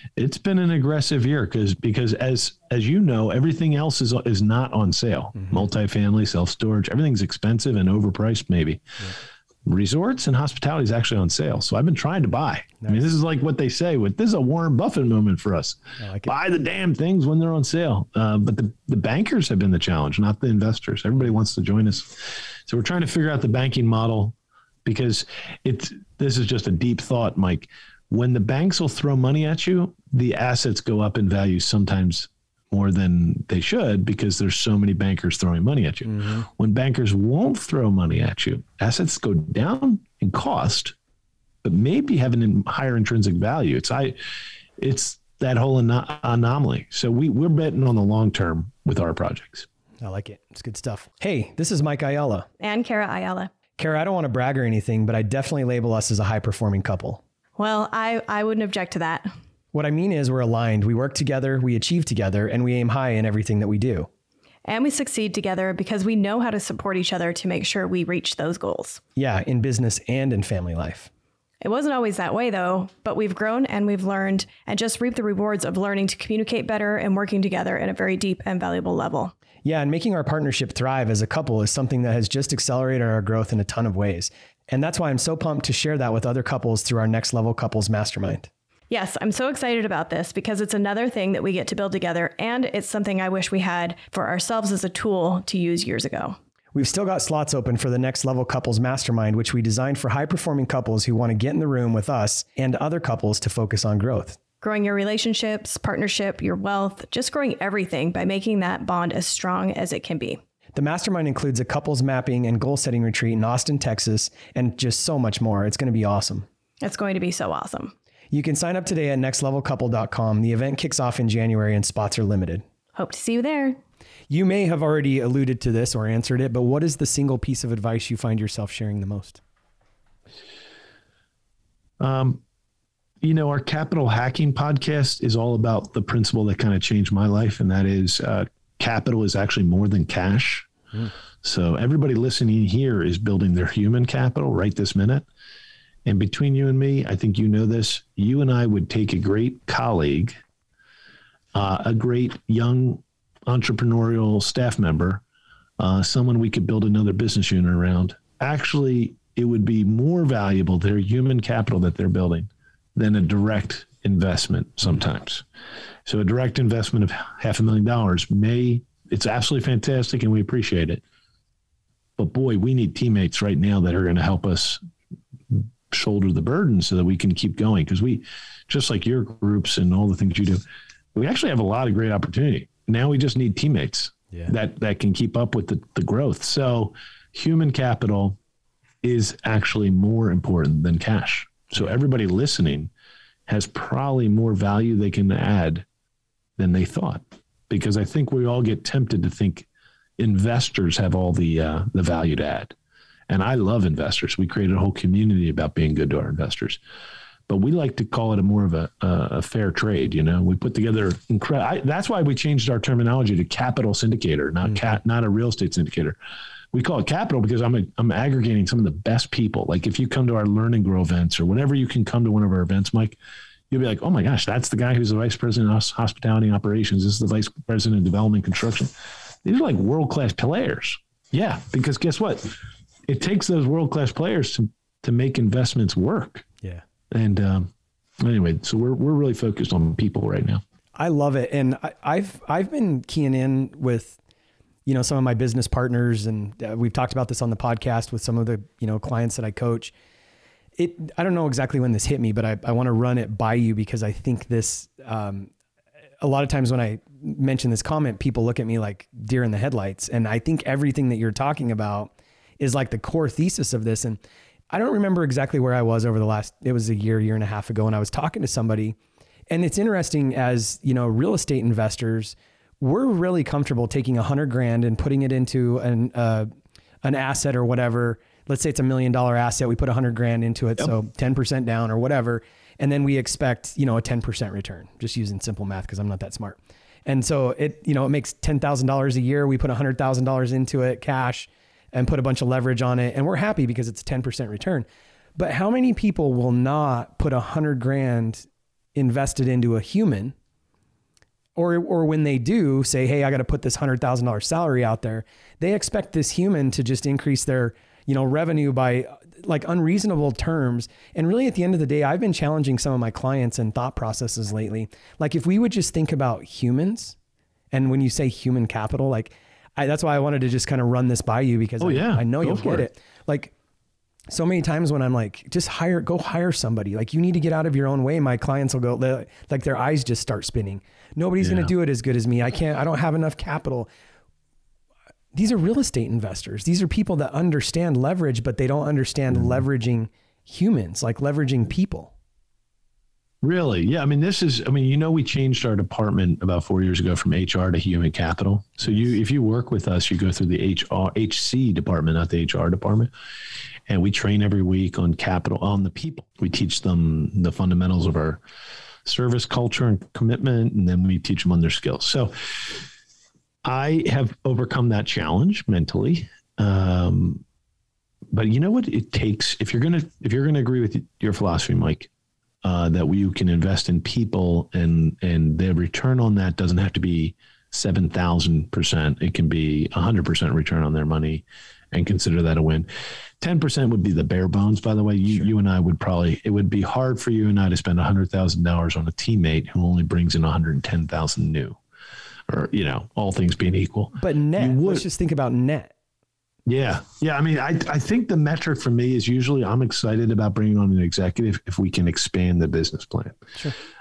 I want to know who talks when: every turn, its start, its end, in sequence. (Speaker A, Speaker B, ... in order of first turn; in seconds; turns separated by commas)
Speaker A: 0.2-8.8, Speaker B: 5.4-5.6, Speaker A: 9.6-40.9, Speaker B: 16.0-16.3, Speaker B: 36.0-36.5, Speaker A: 41.6-44.2, Speaker A: 44.8-49.6, Speaker B: 50.0-52.5, Speaker C: 52.6-53.5, Speaker B: 53.8-57.2, Speaker C: 57.6-59.3, Speaker B: 59.7-64.1, Speaker C: 64.7-69.0, Speaker B: 69.2-71.1, Speaker C: 71.6-79.3, Speaker B: 79.6-88.5, Speaker C: 88.9-96.4, Speaker B: 96.7-104.4, Speaker C: 104.6-110.4, Speaker B: 110.7-116.5, Speaker C: 116.8-117.9, Speaker B: 118.3-122.6, Speaker C: 123.0-123.8, Speaker B: 124.3-129.4, Speaker A: 132.0-132.4, Speaker A: 133.2-140.7, Speaker A: 141.4-145.2, Speaker A: 146.0-150.4, Speaker A: 151.5-155.2, Speaker A: 155.8-165.4, Speaker A: 166.1-171.0, Speaker A: 172.2-174.8, Speaker A: 175.5-180.6, Speaker A: 181.1-188.4, Speaker A: 189.0-192.9, Speaker A: 193.5-195.8, Speaker A: 196.6-199.7, Speaker A: 200.2-202.7, Speaker A: 203.3-206.8, Speaker A: 207.5-216.2, Speaker A: 216.7-223.2, Speaker A: 223.7-228.9, Speaker A: 229.4-236.4, Speaker A: 237.1-240.6, Speaker B: 240.9-244.2, Speaker B: 244.8-249.9, Speaker B: 250.8-255.5, Speaker B: 256.2-264.2, Speaker B: 264.7-268.9, Speaker B: 269.5-276.5, Speaker B: 277.0-300.3, Speaker B: 301.6-317.1, Speaker B: 317.7-323.5, Speaker A: 321.8-322.9, Speaker B: 324.3-333.9, Speaker A: 331.4-331.7, Speaker B: 335.3-342.1, Speaker A: 339.3-339.6, Speaker A: 343.4-353.1, Speaker A: 353.9-358.4, Speaker A: 359.0-362.9, Speaker A: 363.6-367.4, Speaker A: 368.3-372.1, Speaker A: 372.6-382.9, Speaker A: 383.4-391.8, Speaker A: 392.5-395.0, Speaker B: 394.2-395.9, Speaker A: 396.6-403.5